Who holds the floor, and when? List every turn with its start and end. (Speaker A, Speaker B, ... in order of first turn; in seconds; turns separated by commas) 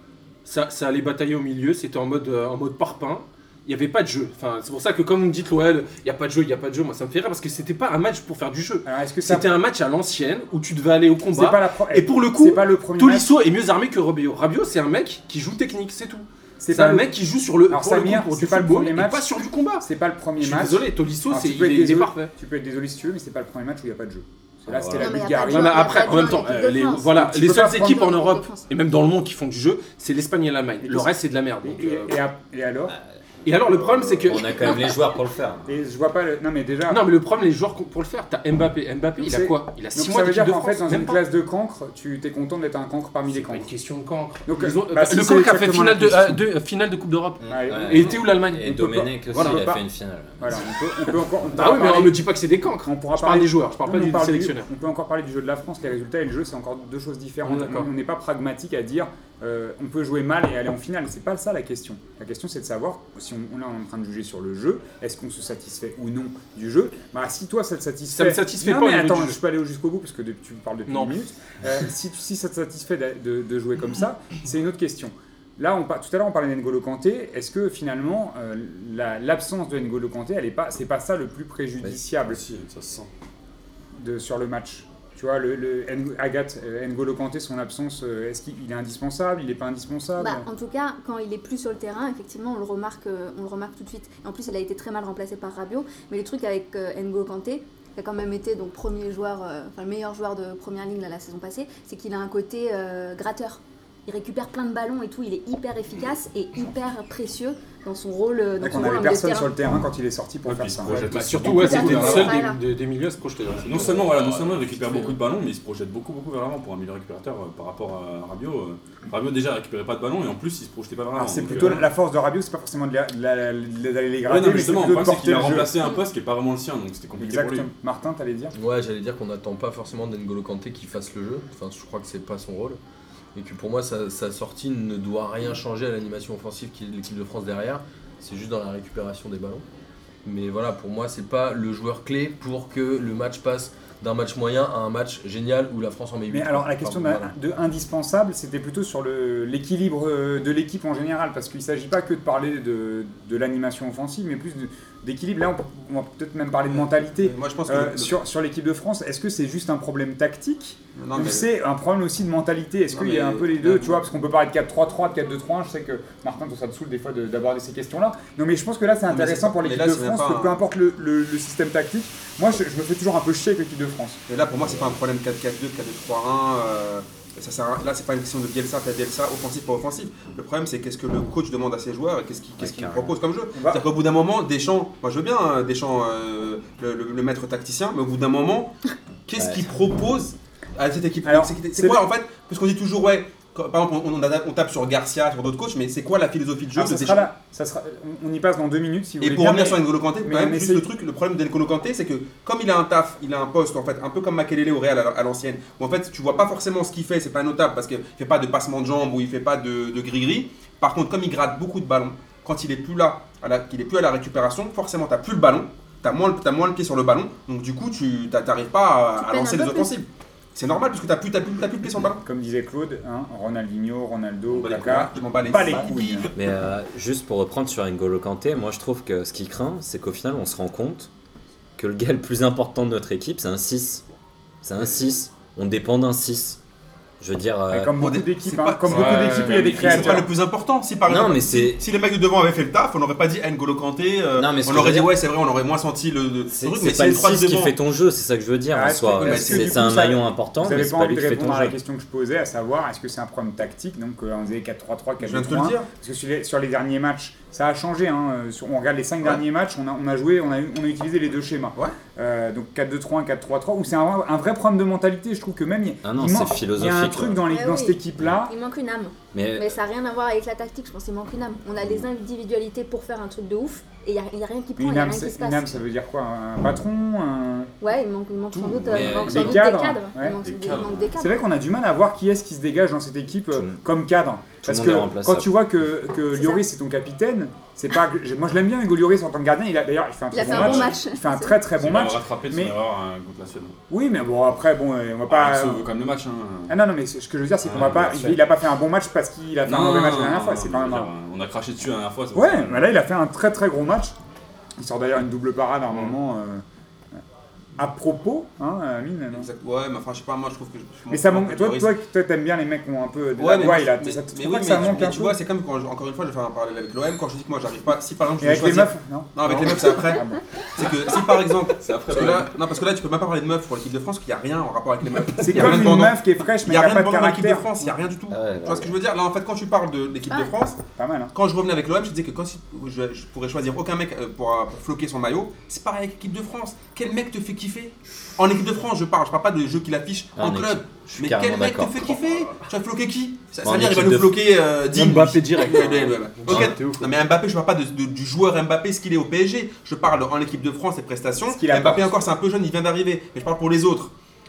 Speaker A: 0.4-19.9, Speaker B: 8.8-9.5, Speaker B: 11.3-13.3, Speaker B: 16.6-17.1, Speaker B: 17.7-25.9, Speaker A: 20.4-22.3, Speaker C: 24.7-25.2, Speaker D: 24.9-27.2, Speaker A: 25.4-32.2, Speaker B: 27.1-28.1, Speaker D: 27.8-28.7, Speaker B: 30.8-31.1, Speaker B: 31.6-33.0, Speaker A: 33.4-35.0, Speaker C: 33.9-35.7, Speaker B: 35.6-37.1, Speaker A: 36.9-41.2, Speaker B: 39.2-43.7, Speaker A: 43.4-49.7, Speaker B: 44.5-46.4, Speaker B: 47.5-48.2, Speaker C: 47.6-50.6, Speaker B: 49.2-49.8, Speaker B: 50.4-52.2, Speaker A: 51.5-54.7, Speaker B: 52.8-82.4, Speaker A: 57.4-57.9, Speaker A: 68.1-69.4, Speaker A: 70.9-71.2, Speaker E: 81.8-83.1, Speaker B: 84.0-90.5, Speaker D: 90.2-109.6, Speaker B: 108.6-111.1, Speaker E: 110.4-112.4, Speaker A: 110.8-114.9, Speaker D: 111.5-112.6, Speaker E: 113.6-121.9, Speaker B: 121.2-125.8, Speaker E: 124.2-127.7, Speaker B: 127.2-128.5, Speaker F: 128.5-132.8, Speaker F: 133.3-139.6, Speaker F: 140.2-147.3, Speaker B: 146.3-174.2, Speaker G: 156.7-158.2, Speaker G: 160.9-161.5, Speaker G: 162.9-164.0, Speaker G: 169.1-170.6, Speaker G: 174.3-188.7, Speaker C: 182.6-183.1, Speaker B: 183.5-183.8, Speaker G: 189.3-197.3, Speaker C: 189.4-189.6, Speaker B: 191.2-192.0, Speaker B: 196.8-200.9, Speaker G: 199.2-222.2, Speaker D: 219.2-220.0, Speaker B: 222.2-226.3, Speaker G: 224.5-226.3, Speaker C: 226.3-231.1, Speaker C: 231.8-234.0, Speaker C: 234.6-236.6, Speaker C: 237.2-237.9, Speaker B: 237.7-240.3, Speaker G: 238.0-247.8, Speaker A: 238.9-240.2, Speaker C: 241.1-241.8, Speaker C: 244.3-245.1, Speaker C: 246.5-251.8, Speaker B: 248.7-268.5, Speaker G: 249.2-249.9, Speaker G: 255.2-255.9, Speaker C: 266.0-267.4, Speaker D: 267.5-275.8, Speaker C: 269.3-269.8, Speaker B: 274.8-277.7, Speaker D: 277.8-281.4, Speaker C: 278.9-279.6, Speaker B: 279.0-280.4, Speaker E: 280.4-281.0, Speaker B: 281.2-292.8, Speaker C: 283.5-283.8, Speaker C: 284.6-285.5, Speaker D: 286.3-286.6, Speaker D: 290.3-291.6, Speaker E: 290.4-290.9, Speaker E: 291.7-293.8, Speaker B: 293.9-295.9, Speaker E: 295.3-296.8, Speaker B: 296.7-301.1, Speaker E: 297.6-298.4, Speaker E: 299.6-302.8, Speaker B: 302.4-304.1, Speaker B: 304.8-306.6, Speaker B: 307.8-309.5, Speaker G: 309.3-311.9, Speaker B: 311.1-315.4, Speaker G: 313.4-330.8, Speaker B: 318.4-319.4, Speaker A: 319.5-319.9, Speaker B: 320.1-320.4, Speaker E: 321.8-322.5, Speaker B: 325.4-327.7, Speaker C: 328.3-328.9, Speaker D: 330.3-330.6, Speaker B: 331.0-331.3, Speaker G: 331.3-354.1, Speaker C: 340.4-342.1, Speaker C: 343.6-344.4, Speaker A: 344.9-347.1, Speaker C: 346.5-346.7, Speaker B: 351.4-352.3